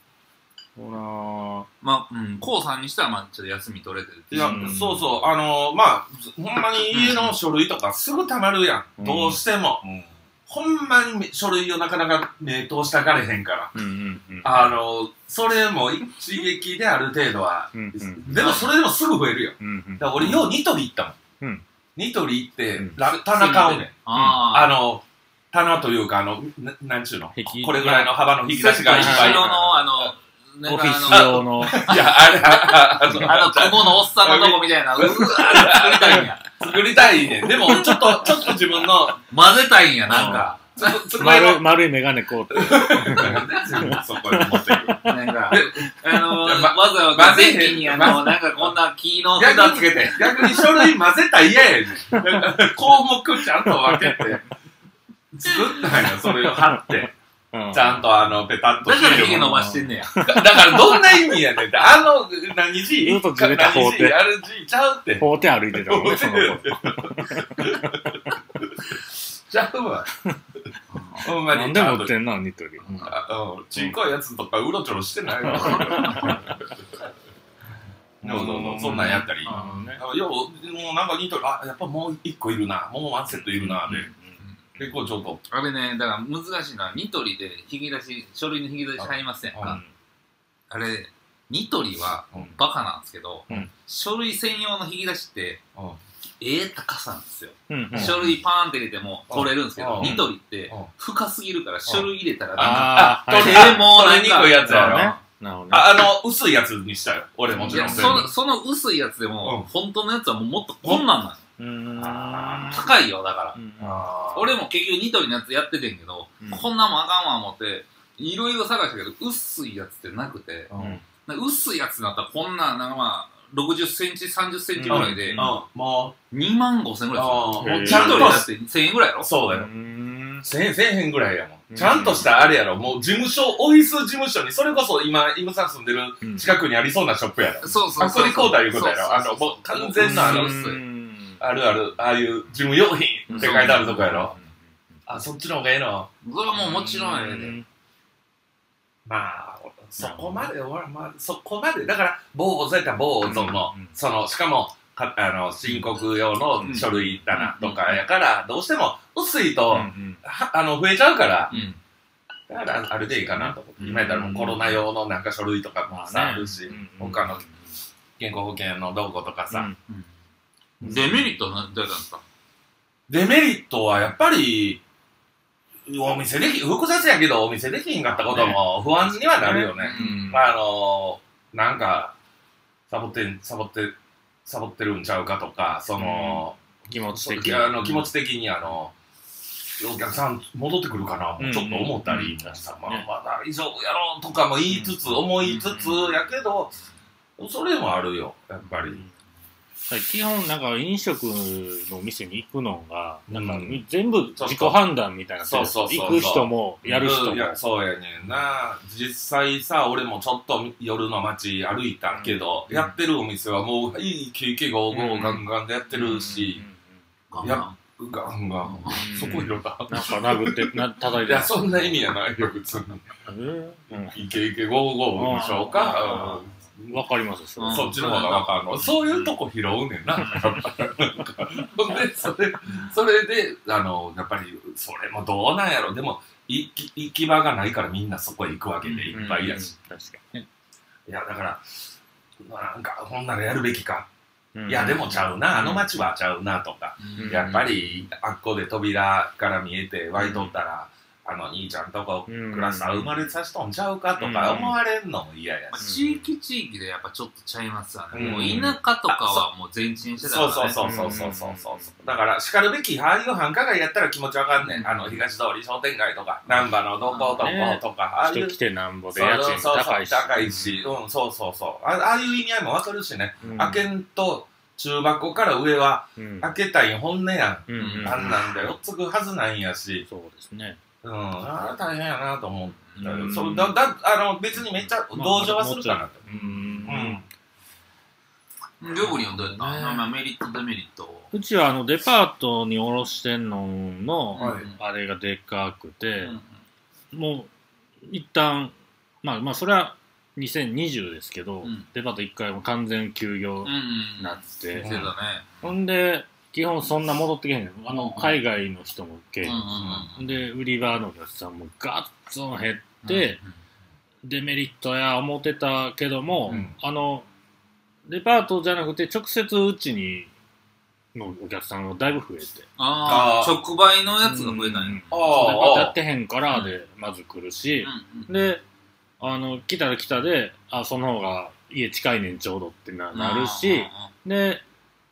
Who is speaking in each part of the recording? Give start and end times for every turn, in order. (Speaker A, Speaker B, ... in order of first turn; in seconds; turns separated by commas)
Speaker A: 0.8-1.7, Speaker B: 1.8-4.8, Speaker C: 4.3-13.7, Speaker A: 4.3-5.2, Speaker B: 6.9-7.3, Speaker A: 9.0-9.4, Speaker A: 13.7-14.8, Speaker C: 14.4-21.2, Speaker A: 17.7-18.6, Speaker B: 18.3-18.7, Speaker A: 19.6-20.5, Speaker C: 21.9-30.1, Speaker B: 23.0-24.8, Speaker A: 24.1-24.5, Speaker A: 27.3-28.3, Speaker B: 28.4-36.6, Speaker A: 28.8-29.8, Speaker A: 30.6-31.9, Speaker C: 31.1-39.2, Speaker A: 37.4-38.2, Speaker B: 37.7-38.2, Speaker B: 39.3-41.0, Speaker A: 40.1-40.5, Speaker C: 40.1-41.7, Speaker A: 41.1-45.6, Speaker C: 42.5-48.7, Speaker B: 45.0-50.6, Speaker C: 49.3-54.4, Speaker A: 52.1-52.6, Speaker A: 53.6-54.4, Speaker C: 55.3-57.1, Speaker A: 56.0-58.4, Speaker C: 57.7-70.1, Speaker B: 58.8-60.2, Speaker A: 59.2-61.4, Speaker A: 63.0-64.3, Speaker A: 65.2-68.3, Speaker B: 70.9-71.3, Speaker C: 71.2-72.1, Speaker A: 71.4-73.2, Speaker C: 72.9-76.7, Speaker A: 75.4-76.6, Speaker B: 75.6-76.4, Speaker A: 78.2-80.0, Speaker C: 78.2-84.1, Speaker B: 79.0-79.8, Speaker A: 83.3-84.4, Speaker C: 84.8-85.4, Speaker B: 85.5-89.8, Speaker C: 89.0-89.8, Speaker A: 89.6-89.9, Speaker B: 90.7-95.6, Speaker B: 96.4-105.2, Speaker A: 97.7-98.3, Speaker C: 97.9-98.3, Speaker C: 99.3-100.9, Speaker A: 100.0-100.2, Speaker C: 101.9-105.1, Speaker A: 102.6-103.9, Speaker A: 104.6-106.1, Speaker C: 105.7-108.3, Speaker A: 107.5-108.3, Speaker B: 107.7-111.4, Speaker C: 109.4-109.7, Speaker A: 111.6-112.9, Speaker C: 112.0-112.9, Speaker B: 112.7-113.6, Speaker A: 113.5-114.1, Speaker C: 113.8-114.5, Speaker B: 114.3-120.7, Speaker C: 120.7-121.0, Speaker A: 120.8-121.0, Speaker B: 121.2-125.5, Speaker A: 124.8-125.6, Speaker C: 124.9-126.2, Speaker B: 126.3-129.3, Speaker C: 127.1-128.5, Speaker A: 127.6-128.4, Speaker C: 129.2-129.7, Speaker A: 129.5-130.4, Speaker C: 130.4-140.6, Speaker A: 131.7-132.4, Speaker A: 136.2-136.5, Speaker B: 137.6-140.8, Speaker A: 140.0-141.4, Speaker C: 141.4-144.3, Speaker A: 143.3-144.6, Speaker B: 143.3-143.8, Speaker C: 145.1-146.1, Speaker B: 146.2-147.6, Speaker A: 146.6-147.6, Speaker C: 149.0-161.5, Speaker A: 150.0-150.5, Speaker A: 153.2-153.9, Speaker B: 156.6-156.9, Speaker A: 157.3-157.8, Speaker A: 159.7-160.2, Speaker B: 161.5-161.8, Speaker C: 162.5-167.4, Speaker B: 163.8-164.7, Speaker A: 165.9-167.7, Speaker C: 168.2-169.7, Speaker A: 169.5-169.8, Speaker B: 170.8-172.2, Speaker A: 170.8-171.2, Speaker C: 173.1-174.8, Speaker C: 175.8-182.1, Speaker A: 178.2-180.5, Speaker B: 179.7-180.5, Speaker C: 182.9-188.9, Speaker A: 186.0-188.1, Speaker C: 189.8-196.7, Speaker A: 191.4-193.1, Speaker A: 194.7-196.1, Speaker B: 195.5-195.8, Speaker C: 197.4-199.0, Speaker A: 199.9-207.6, Speaker C: 203.3-204.8, Speaker C: 205.4-216.6, Speaker A: 212.1-212.5, Speaker A: 214.9-215.4, Speaker A: 215.9-216.9, Speaker B: 217.3-217.8, Speaker C: 217.4-223.1, Speaker B: 218.6-219.3, Speaker A: 219.0-222.0, Speaker A: 223.2-224.2, Speaker C: 223.9-227.0, Speaker A: 225.2-228.0, Speaker B: 225.7-226.4, Speaker B: 227.6-229.3, Speaker C: 227.7-239.7, Speaker A: 230.2-230.9, Speaker B: 230.2-230.6, Speaker B: 238.8-239.2, Speaker A: 239.1-240.5, Speaker C: 241.1-241.6, Speaker C: 242.4-244.1, Speaker A: 244.6-246.1, Speaker C: 244.7-255.8, Speaker B: 247.0-247.6, Speaker A: 247.2-247.7, Speaker A: 250.2-250.6, Speaker A: 252.3-253.3, Speaker A: 254.2-254.8, Speaker B: 255.7-261.1, Speaker A: 255.8-256.3, Speaker C: 258.1-259.4, Speaker A: 258.1-258.8, Speaker C: 260.2-268.6, Speaker A: 260.8-262.0, Speaker B: 264.6-265.0, Speaker B: 267.0-267.5, Speaker A: 267.4-270.9, Speaker C: 269.1-280.1, Speaker A: 273.4-273.8, Speaker A: 276.1-276.5, Speaker A: 277.7-278.5, Speaker B: 277.8-278.3, Speaker A: 280.1-280.8, Speaker C: 281.0-286.2, Speaker A: 283.0-283.7, Speaker A: 284.6-287.3, Speaker B: 286.3-286.9, Speaker C: 286.9-287.2, Speaker B: 288.8-291.3, Speaker A: 289.1-290.1, Speaker A: 291.3-296.3, Speaker B: 294.3-294.8, Speaker C: 294.4-294.7, Speaker B: 296.2-296.4, Speaker A: 297.1-297.5, Speaker A: 298.0-304.9, Speaker B: 303.6-305.5, Speaker C: 304.8-305.1, Speaker A: 305.6-313.4, Speaker B: 307.9-308.4, Speaker B: 309.4-310.3, Speaker C: 309.6-310.1, Speaker B: 313.0-313.5, Speaker A: 314.2-317.3, Speaker C: 316.5-316.7, Speaker A: 318.1-320.3, Speaker A: 321.1-322.7, Speaker B: 322.8-325.0, Speaker C: 323.0-323.6, Speaker A: 324.2-328.6, Speaker C: 325.1-325.9, Speaker B: 327.8-328.3, Speaker A: 329.2-334.6, Speaker B: 333.1-334.1